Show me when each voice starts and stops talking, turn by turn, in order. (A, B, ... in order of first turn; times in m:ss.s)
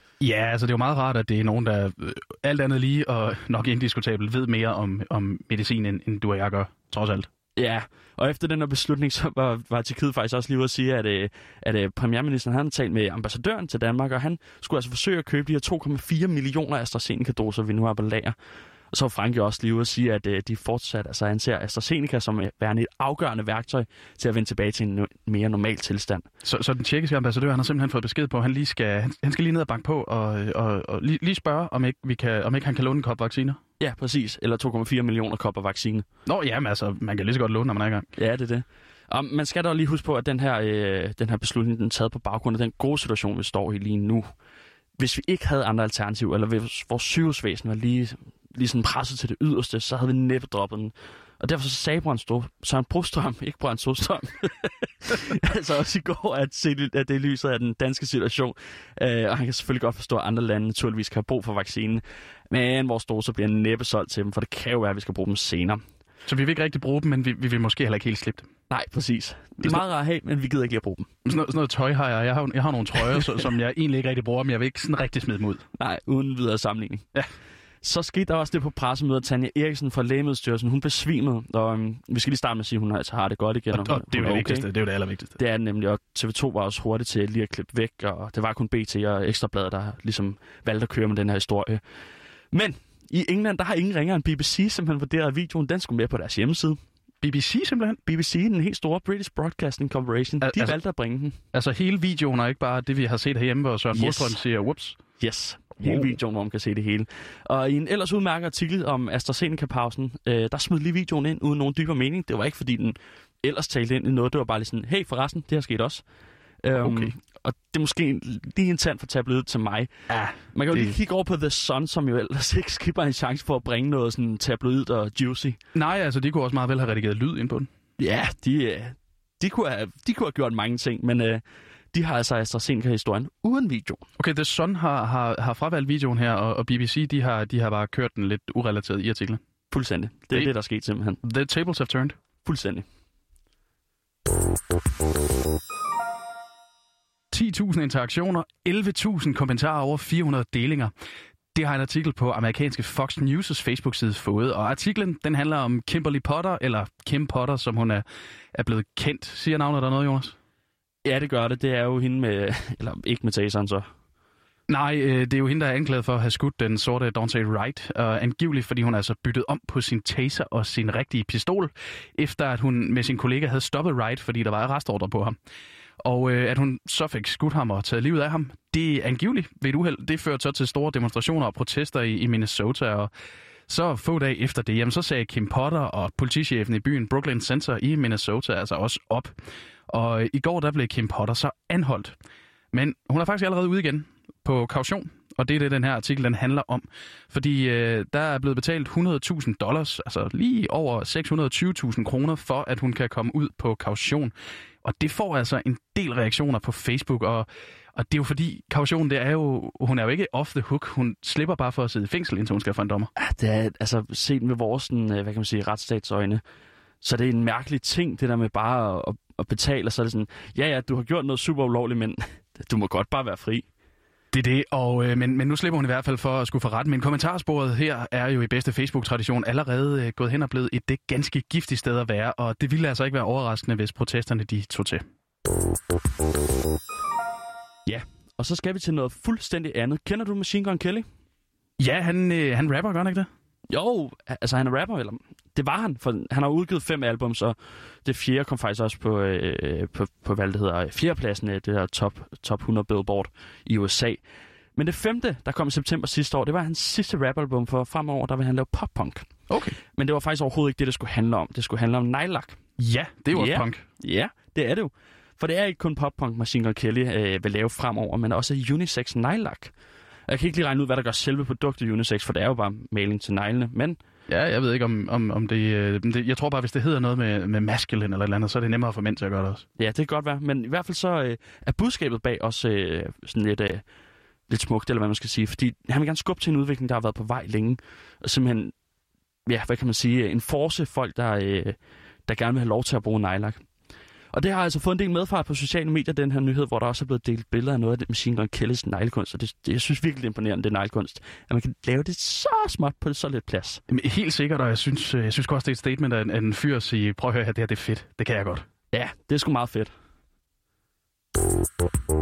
0:00.2-0:07.3 A
0:07.6-0:18.4 B
0:18.9-0:26.2 B
0:26.4-0:33.6 A
0:33.8-0:36.0 B
0:36.2-0:38.1 A
0:38.2-0:44.2 B
0:45.0-1:05.8 B
1:06.3-1:08.5 A
1:08.7-1:11.1 B
1:11.2-1:15.6 A
1:15.8-1:17.0 B
1:17.8-1:24.7 B
1:23.7-1:25.4 A
1:25.4-1:31.8 B
1:32.5-1:36.8 B
1:37.2-1:38.0 A
1:38.0-1:41.4 B
1:40.4-1:40.8 A
1:41.5-1:45.0 A
1:43.9-1:44.4 B
1:45.2-1:56.0 B
1:56.6-1:59.9 B
1:56.8-1:57.1 A
2:00.1-2:01.0 A
2:00.5-2:05.6 B
2:05.7-2:07.7 A
2:08.0-2:11.4 B
2:11.9-2:14.0 B
2:14.2-2:19.4 A
2:19.7-2:21.2 B
2:21.2-2:22.2 A
2:22.4-2:22.8 B
2:27.3-2:30.9 A
2:31.5-2:40.3 A
2:41.0-2:43.8 B
2:44.7-2:55.4 A
2:56.0-3:03.1 A
3:03.7-3:09.3 A
3:09.9-3:12.2 A
3:12.7-3:33.1 A
3:33.2-3:36.4 B
3:37.0-3:43.6 B
3:44.3-3:55.0 A
3:57.8-4:01.0 B
4:01.8-4:03.3 A
4:03.7-4:14.2 B
4:14.8-4:19.2 B
4:19.5-4:19.8 A
4:19.9-4:22.6 B
4:22.8-4:23.8 A
4:23.3-4:29.7 B
4:30.3-4:34.0 B
4:34.3-4:39.6 A
4:39.8-4:43.8 B
4:44.5-4:48.7 B
4:49.4-4:51.8 B
4:52.3-4:53.6 B
4:54.3-5:03.8 B
5:03.9-5:08.6 A
5:08.9-5:09.9 B